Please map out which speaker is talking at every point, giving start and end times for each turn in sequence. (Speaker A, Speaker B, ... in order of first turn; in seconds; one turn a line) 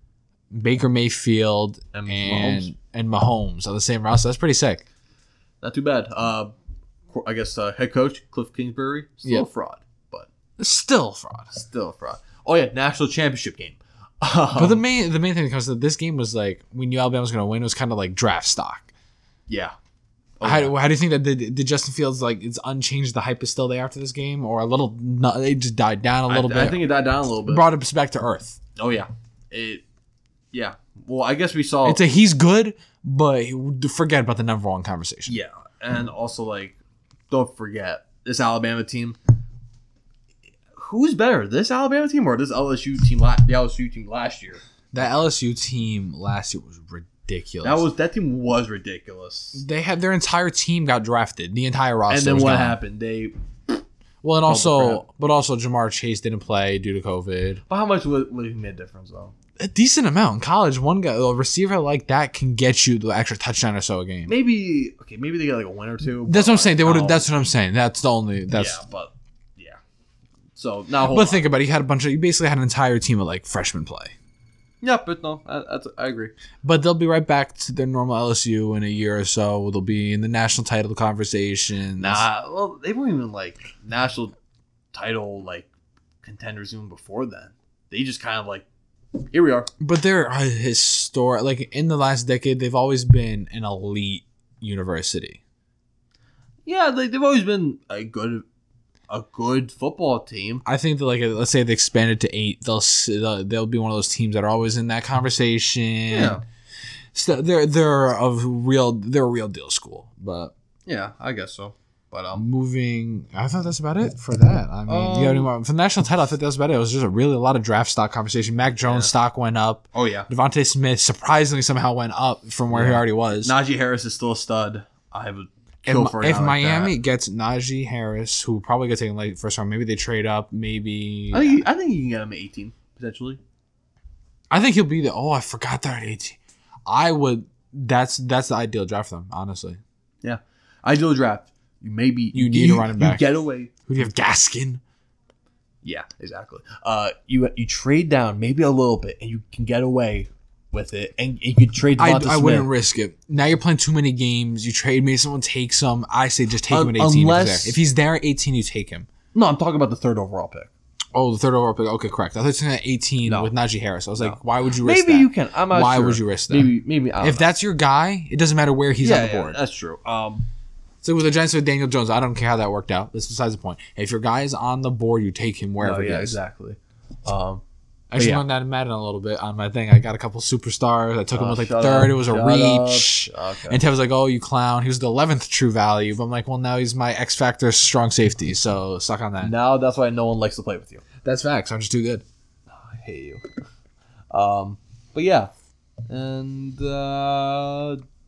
Speaker A: 0.5-4.8
Speaker B: 1.9-2.7
Speaker B: 5.6-6.5
Speaker B: 7.1-10.3
Speaker A: 10.6-11.5
Speaker B: 11.5-14.8
Speaker A: 14.6-18.9
Speaker B: 19.5-19.7
Speaker B: 20.4-20.7
Speaker A: 20.4-26.9
Speaker B: 26.3-27.7
Speaker A: 27.4-28.6
Speaker B: 28.8-29.8
Speaker B: 30.5-32.0
Speaker A: 31.8-35.4
Speaker B: 35.3-36.8
Speaker B: 37.3-39.2
Speaker B: 40.8-44.6
Speaker A: 44.9-47.9
Speaker B: 47.6-49.6
Speaker A: 49.5-52.8
Speaker B: 52.1-53.8
Speaker A: 54.2-57.6
Speaker B: 54.5-55.0
Speaker B: 57.7-59.3
Speaker A: 59.6-64.3
Speaker B: 64.3-67.3
Speaker A: 66.3-68.8
Speaker B: 68.5-69.8
Speaker B: 70.6-71.4
Speaker A: 71.1-74.1
Speaker B: 74.8-76.3
Speaker A: 76.6-82.2
Speaker B: 82.0-84.3
Speaker B: 84.9-85.7
Speaker B: 86.2-88.7
Speaker B: 89.2-89.7
Speaker A: 89.8-95.4
Speaker B: 96.7-98.5
Speaker B: 99.1-100.6
Speaker A: 100.7-106.4
Speaker B: 106.1-106.4
Speaker A: 107.1-110.5
Speaker B: 110.9-112.5
Speaker A: 112.4-123.5
Speaker B: 114.9-115.5
Speaker B: 118.9-119.1
Speaker B: 119.9-120.3
Speaker B: 122.7-127.0
Speaker A: 125.8-131.6
Speaker B: 131.3-133.4
Speaker A: 134.5-139.8
Speaker B: 140.2-143.7
Speaker A: 142.3-144.8
Speaker B: 145.8-152.7
Speaker A: 152.0-159.1
Speaker B: 156.7-157.8
Speaker B: 159.3-160.7
Speaker A: 161.1-169.6
Speaker B: 163.2-163.5
Speaker B: 164.2-167.5
Speaker B: 169.0-170.5
Speaker A: 171.0-176.4
Speaker B: 175.8-177.6
Speaker A: 178.1-189.5
Speaker B: 178.2-178.4
Speaker B: 181.3-183.8
Speaker B: 189.4-191.0
Speaker A: 191.2-192.2
Speaker B: 192.7-193.4
Speaker B: 194.3-195.5
Speaker B: 196.1-198.0